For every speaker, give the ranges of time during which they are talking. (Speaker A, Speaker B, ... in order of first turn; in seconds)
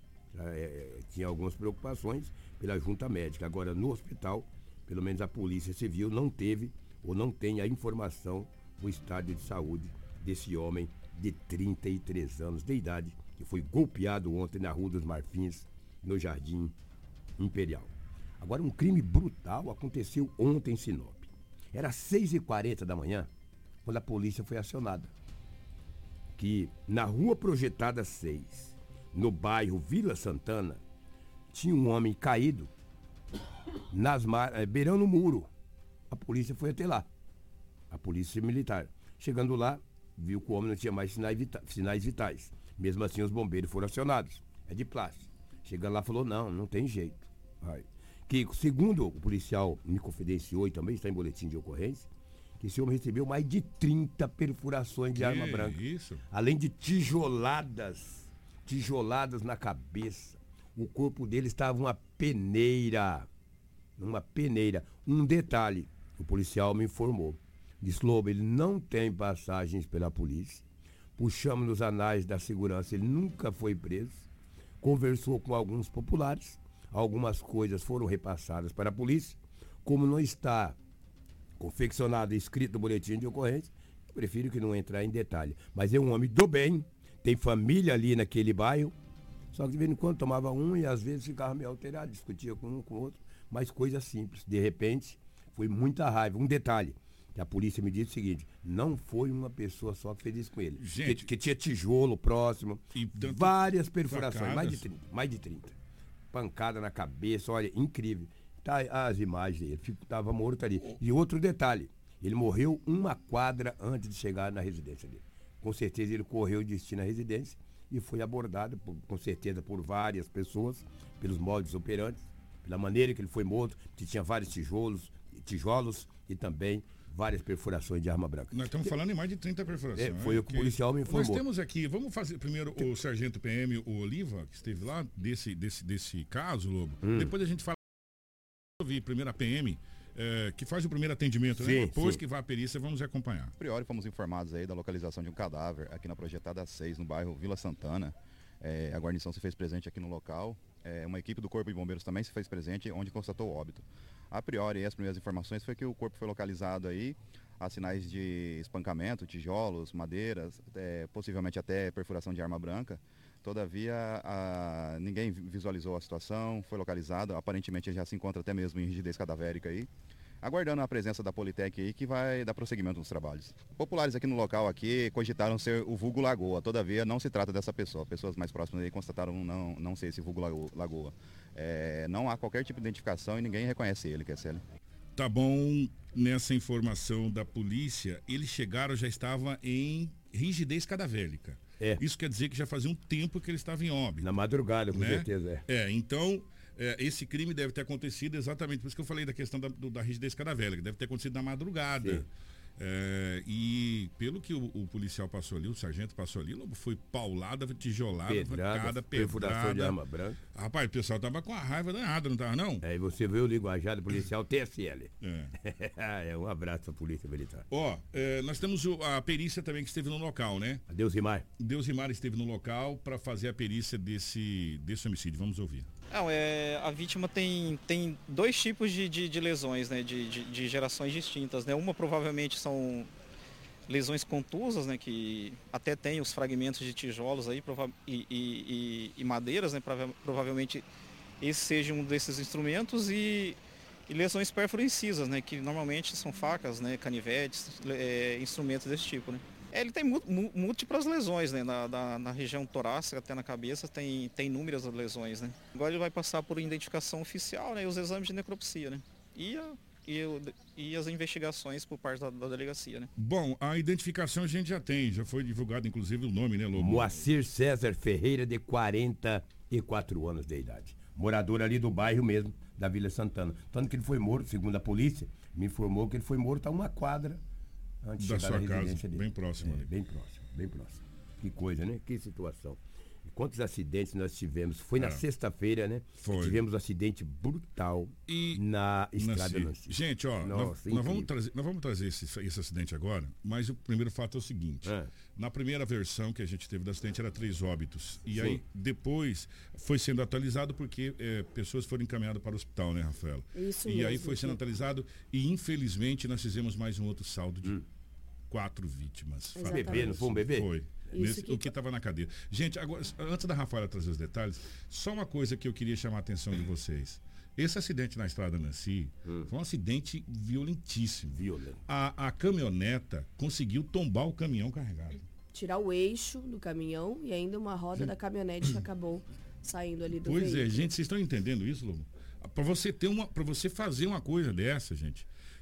Speaker A: 0.3-16.8, 17.4-23.3, 23.8-25.1, 26.4-30.8, 31.5-32.7, 33.9-35.5, 36.1-37.1, 37.9-52.1, 52.6-55.8, 56.3-63.3, 64.0-70.7, 71.2-74.3, 74.8-80.8, 81.6-89.0, 89.5-105.8, 106.3-128.9, 129.9-131.4, 137.0-137.3, 141.6-142.2, 194.2-195.6, 202.0-202.2, 208.3-210.4, 212.8-217.7, 220.9-221.4, 266.8-277.4, 278.0-291.3, 294.8-295.1, 298.3-298.6, 309.6-310.7, 319.2-319.5, 321.3-321.8
Speaker B: 55.1-56.2, 100.8-101.3, 103.0-104.9, 128.5-137.8, 138.8-143.6, 185.2-194.3, 194.9-210.0, 210.6-212.8, 215.2-215.5, 217.7-220.8, 221.6-225.9, 263.2-267.2, 278.2-279.9, 285.0-285.2, 286.2-286.6, 288.3-288.6, 289.2-307.8, 308.5-325.3, 330.2-335.3
Speaker C: 143.6-169.9, 170.4-184.6
Speaker D: 226.1-233.1, 233.9-240.9, 241.4-263.1
Speaker E: 303.5-304.6, 309.6-310.1, 311.1-311.7, 325.5-330.9